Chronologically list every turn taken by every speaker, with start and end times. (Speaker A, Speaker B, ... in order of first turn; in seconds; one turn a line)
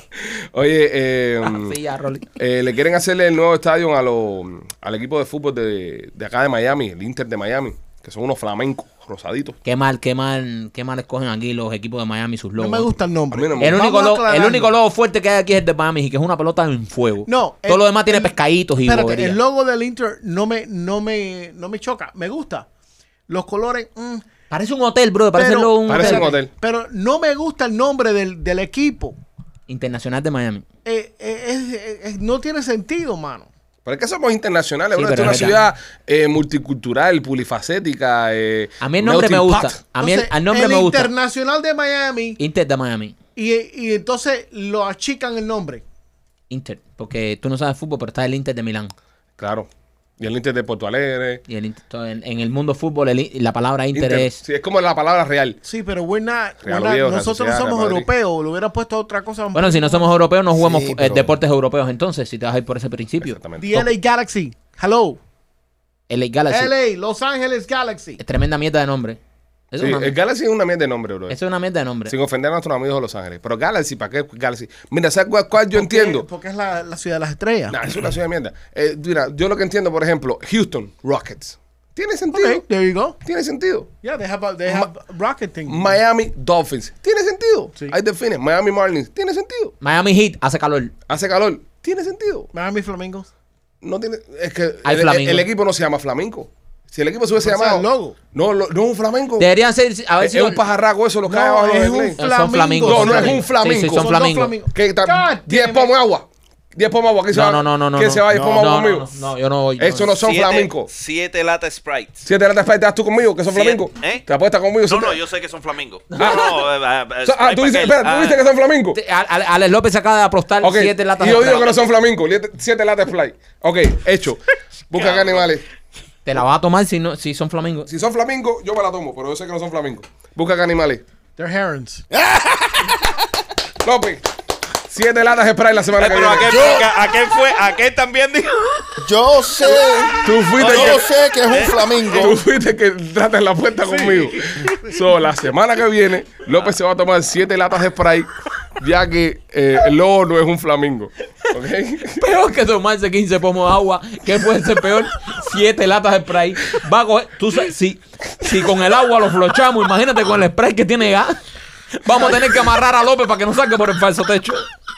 Speaker A: 0.2-1.8
Speaker B: 1.4-2.2
Speaker A: 2.4-9.6
Speaker B: 9.6-12.9
Speaker C: 12.6-14.7
Speaker A: 13.3-13.8
Speaker B: 13.6-19.4
Speaker C: 17.3-22.7
Speaker C: 23.3-24.3
Speaker B: 24.5-26.3
Speaker C: 25.3-29.2
Speaker A: 25.9-26.5
Speaker B: 29.7-30.6
Speaker C: 30.8-33.5
Speaker A: 33.8-39.8
Speaker B: 34.9-35.6
Speaker B: 38.8-41.1
Speaker C: 40.0-42.4
Speaker B: 42.4-43.1
Speaker C: 43.3-45.8
Speaker B: 46.5-48.9
Speaker A: 49.4-49.7
Speaker A: 50.2-51.4
Speaker B: 51.5-54.4
Speaker A: 53.9-55.6
Speaker C: 55.6-60.1
Speaker A: 56.6-58.1
Speaker B: 59.5-63.8
Speaker D: 60.5-61.3
Speaker A: 63.2-63.9
Speaker C: 63.6-65.2
Speaker B: 66.1-66.7
Speaker C: 66.5-68.2
Speaker B: 68.2-69.2
Speaker B: 69.7-70.1
Speaker A: 69.8-71.4
Speaker B: 71.3-72.1
Speaker A: 72.1-76.2
Speaker C: 75.7-77.8
Speaker A: 77.7-82.6
Speaker C: 82.3-83.2
Speaker A: 83.2-83.9
Speaker C: 84.0-86.0
Speaker A: 85.7-89.7
Speaker B: 89.8-90.9
Speaker A: 91.1-92.5
Speaker C: 92.5-93.3
Speaker A: 93.8-99.5
Speaker B: 94.8-95.5
Speaker C: 97.4-98.2
Speaker B: 99.4-100.6
Speaker A: 100.2-102.2
Speaker C: 101.2-105.9
Speaker B: 102.2-104.5
Speaker A: 102.8-104.1
Speaker A: 104.7-109.1
Speaker B: 107.3-110.2
Speaker D: 108.3-108.6
Speaker A: 109.8-110.9
Speaker E: 110.2-112.2
Speaker A: 112.2-115.2
Speaker E: 113.5-114.2
Speaker E: 114.9-118.4
Speaker A: 116.2-116.7
Speaker A: 117.2-119.0
Speaker B: 118.9-121.8
Speaker A: 120.6-125.6
Speaker E: 124.9-125.4
Speaker B: 126.2-127.9
Speaker A: 127.9-131.0
Speaker C: 131.4-132.0
Speaker D: 132.1-133.2
Speaker A: 133.8-134.2
Speaker A: 134.9-136.8
Speaker E: 136.0-138.6
Speaker D: 139.0-142.4
Speaker A: 140.2-141.0
Speaker E: 140.6-141.8
Speaker A: 142.1-152.2
Speaker C: 143.8-144.9
Speaker B: 152.2-161.4
Speaker B: 161.9-164.7